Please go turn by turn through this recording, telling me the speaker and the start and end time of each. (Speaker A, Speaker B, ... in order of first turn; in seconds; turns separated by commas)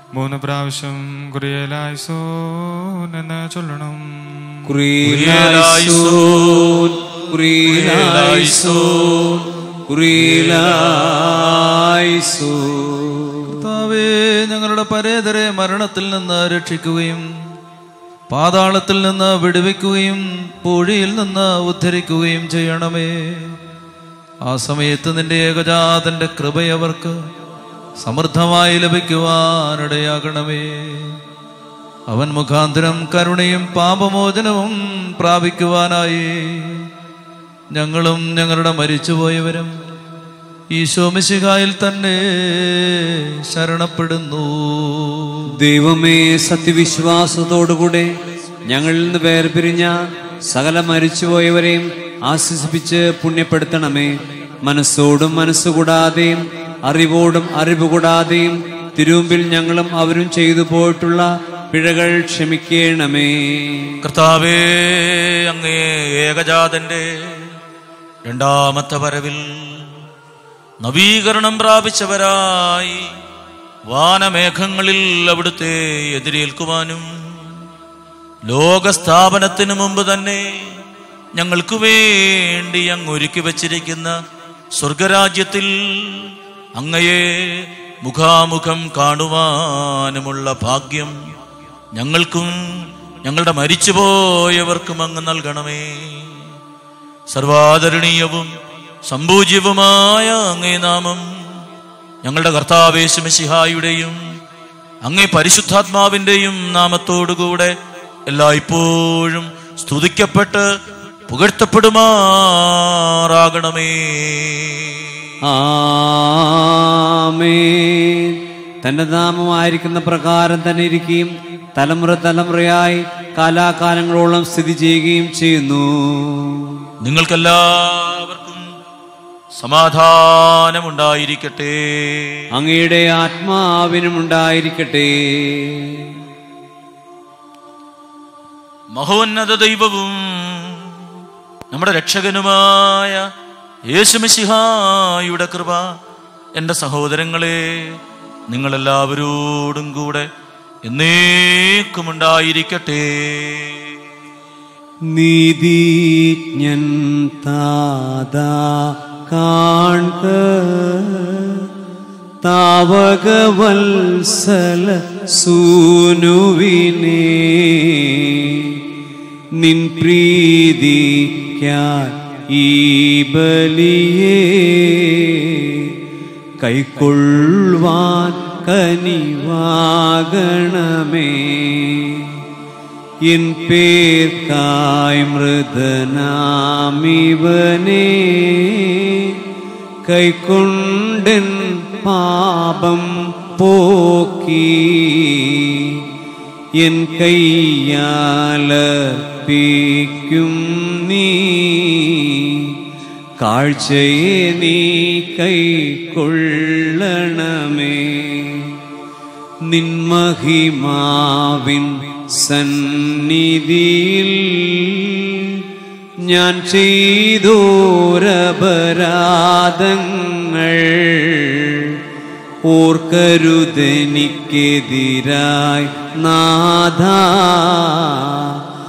Speaker A: 0.1-4.7, Speaker B: 4.6-13.6, Speaker C: 5.0-6.9, Speaker C: 7.7-9.5, Speaker C: 10.1-11.7, Speaker D: 13.5-17.2, Speaker D: 18.3-23.6, Speaker D: 24.4-27.2, Speaker D: 28.0-31.2, Speaker D: 32.1-36.9, Speaker D: 37.7-39.7, Speaker D: 40.7-45.5, Speaker B: 45.6-48.1, Speaker B: 48.7-49.9, Speaker B: 50.5-54.1, Speaker B: 54.6-64.0, Speaker C: 64.0-67.6, Speaker C: 68.2-70.0, Speaker C: 70.8-73.0, Speaker C: 73.9-77.6, Speaker C: 78.5-80.4, Speaker C: 81.3-84.1, Speaker C: 84.8-91.1, Speaker C: 91.9-96.5, Speaker C: 97.3-98.5, Speaker C: 99.1-101.6, Speaker C: 102.2-104.2, Speaker C: 105.0-107.7, Speaker C: 108.3-110.6, Speaker C: 111.3-115.2, Speaker B: 115.5-126.9, Speaker C: 127.0-128.6, Speaker C: 129.6-132.4, Speaker B: 132.5-136.1, Speaker C: 138.9-141.1, Speaker C: 141.7-143.2, Speaker C: 143.9-145.9, Speaker C: 146.6-148.0, Speaker C: 148.5-150.3, Speaker C: 150.8-153.9, Speaker B: 155.1-161.7, Speaker B: 162.4-168.8, Speaker B: 169.6-175.9, Speaker B: 176.6-182.3, Speaker B: 183.3-189.3, Speaker B: 190.0-196.0, Speaker B: 196.8-202.7, Speaker B: 203.4-208.8, Speaker B: 209.7-215.6, Speaker B: 216.2-221.9, Speaker B: 222.7-228.5